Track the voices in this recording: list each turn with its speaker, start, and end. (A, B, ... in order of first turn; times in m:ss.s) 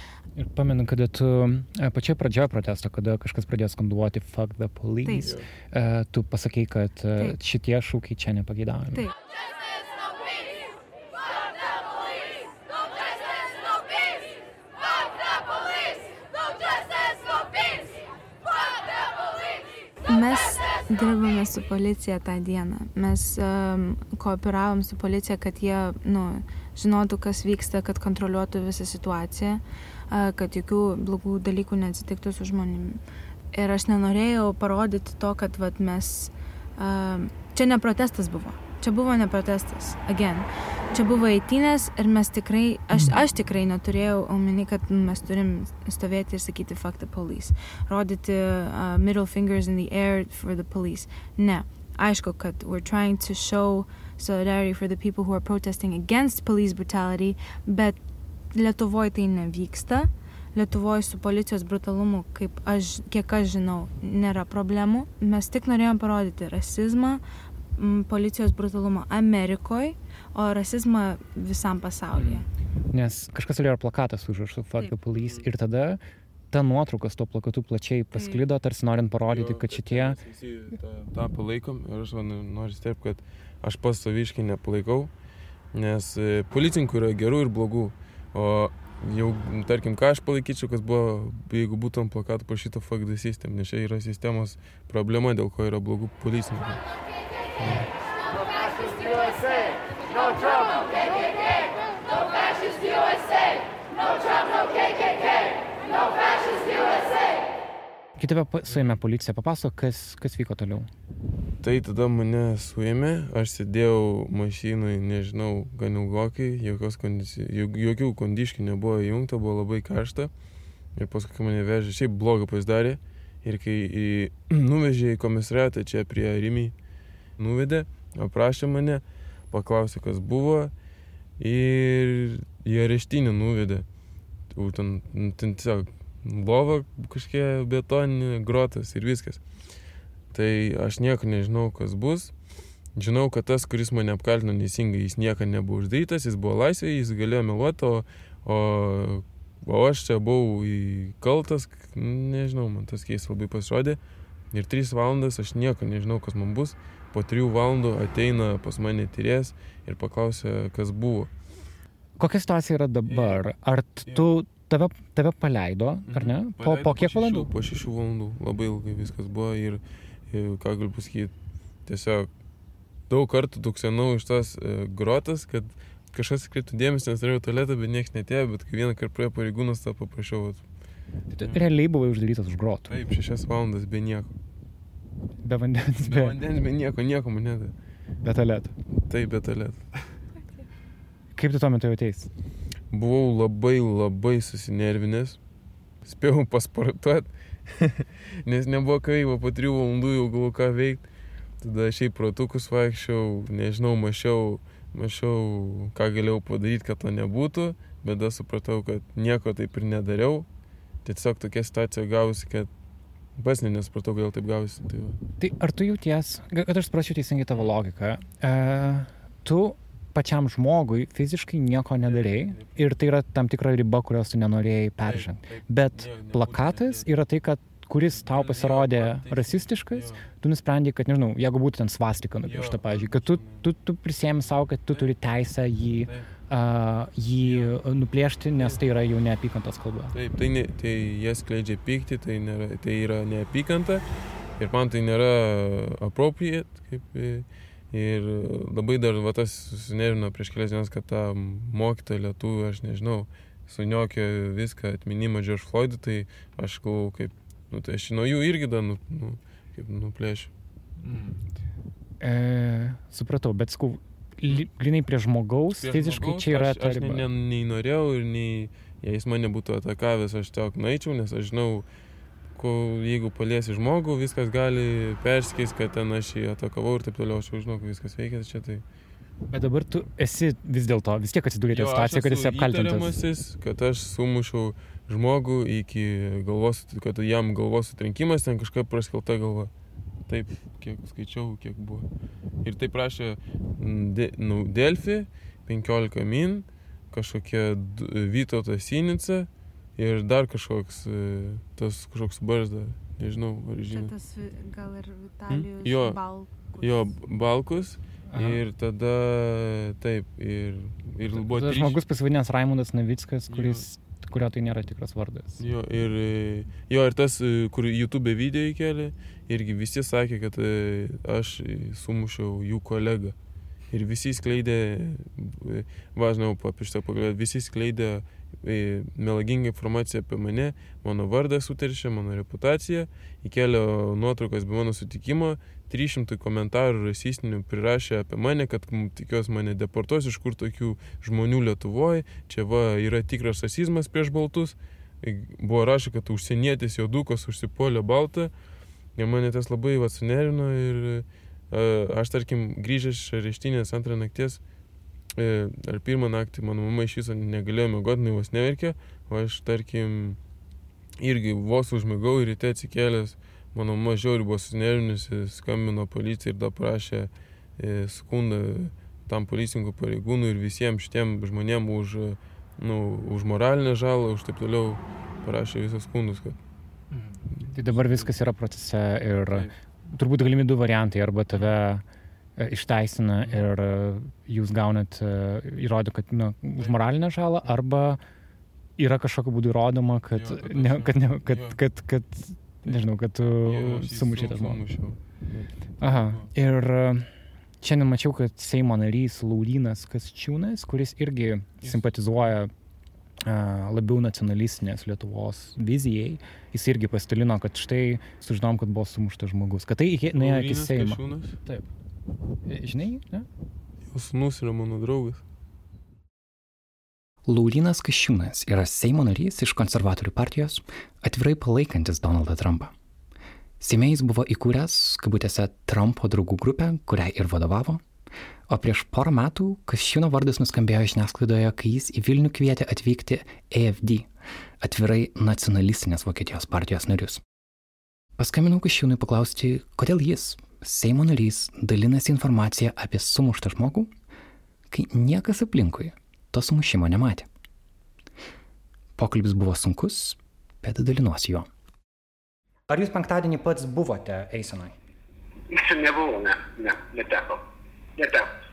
0:00.4-0:09.1 A
0:05.2-0:05.5 B
0:20.1-0:33.0 C
0:33.5-0:58.0 C
0:58.5-1:07.2 C
1:07.8-1:12.5 C
1:12.2-1:16.0 A
1:15.2-1:15.5 B
1:16.5-1:20.2 A
1:19.3-1:25.1 B
1:25.7-1:36.8 B
1:37.6-1:37.9 B
1:48.2-1:50.9 A
1:48.7-1:49.0 B
1:51.6-2:00.3 B
2:01.0-2:06.8 B
2:07.4-2:10.7 B
2:11.4-2:13.9 B
2:14.5-2:19.4 B
2:20.3-2:22.3 B
2:23.0-2:34.0 B
2:34.5-2:41.3 B
2:42.2-2:47.5 A
2:43.1-2:43.4 B
2:46.1-2:51.3 B
2:51.9-2:52.3 B
2:53.1-3:00.6 B
3:01.3-3:03.0 A
3:02.9-3:04.4 B
3:05.4-3:06.4 A
3:06.0-3:07.7 B
3:08.2-3:08.7 A
3:09.0-3:09.9 B
3:11.4-3:12.3 A
3:12.9-3:15.4 B
3:16.0-3:21.1 B
3:21.6-3:30.5 B
3:31.0-3:32.7 B
3:33.4-3:35.2 B
3:35.4-4:00.2 A
3:42.1-3:42.8 B
3:45.0-3:47.1 B
3:48.1-3:50.3 B
3:52.4-3:53.6 B
3:54.9-3:55.2 B
3:56.0-3:56.3 B
3:57.4-3:57.8 B
3:58.6-3:58.8 B
4:00.1-4:04.0 B
4:04.6-4:20.5 B
4:21.0-4:21.4 A
4:22.2-4:27.3 A
4:25.7-4:31.9 B
4:32.5-4:38.8 B
4:39.5-4:43.2 A
4:41.7-4:49.7 B
4:50.3-4:52.1 B
4:52.6-5:04.1 B
5:03.9-5:07.1 C
5:05.8-5:12.0 B
5:08.3-5:08.6 A
5:11.2-5:15.6 A
5:13.5-5:13.8 B
5:15.6-5:23.4 B
5:23.9-5:48.5 B
5:49.2-5:54.6 B
5:55.4-6:00.4 B
6:01.2-6:16.6 B
6:17.1-6:22.0 A
6:17.6-6:18.5 B
6:22.6-6:28.2 A
6:29.0-6:34.9 A
6:30.3-6:31.8 B
6:33.6-6:36.5 B
6:36.0-6:37.3 A
6:37.8-6:42.7 A
6:41.8-6:42.1 B
6:43.4-6:51.9 A
6:50.3-6:51.6 B
6:52.7-6:53.5 A
6:54.1-6:55.4 B
6:57.4-7:02.9 D
7:03.8-7:08.0 D
7:08.7-7:14.3 D
7:14.8-7:17.4 D
7:18.4-7:24.1 D
7:24.9-7:27.5 D
7:29.2-7:31.7 D
7:32.9-7:35.0 A
7:35.7-7:37.6 E
7:38.2-7:38.5 E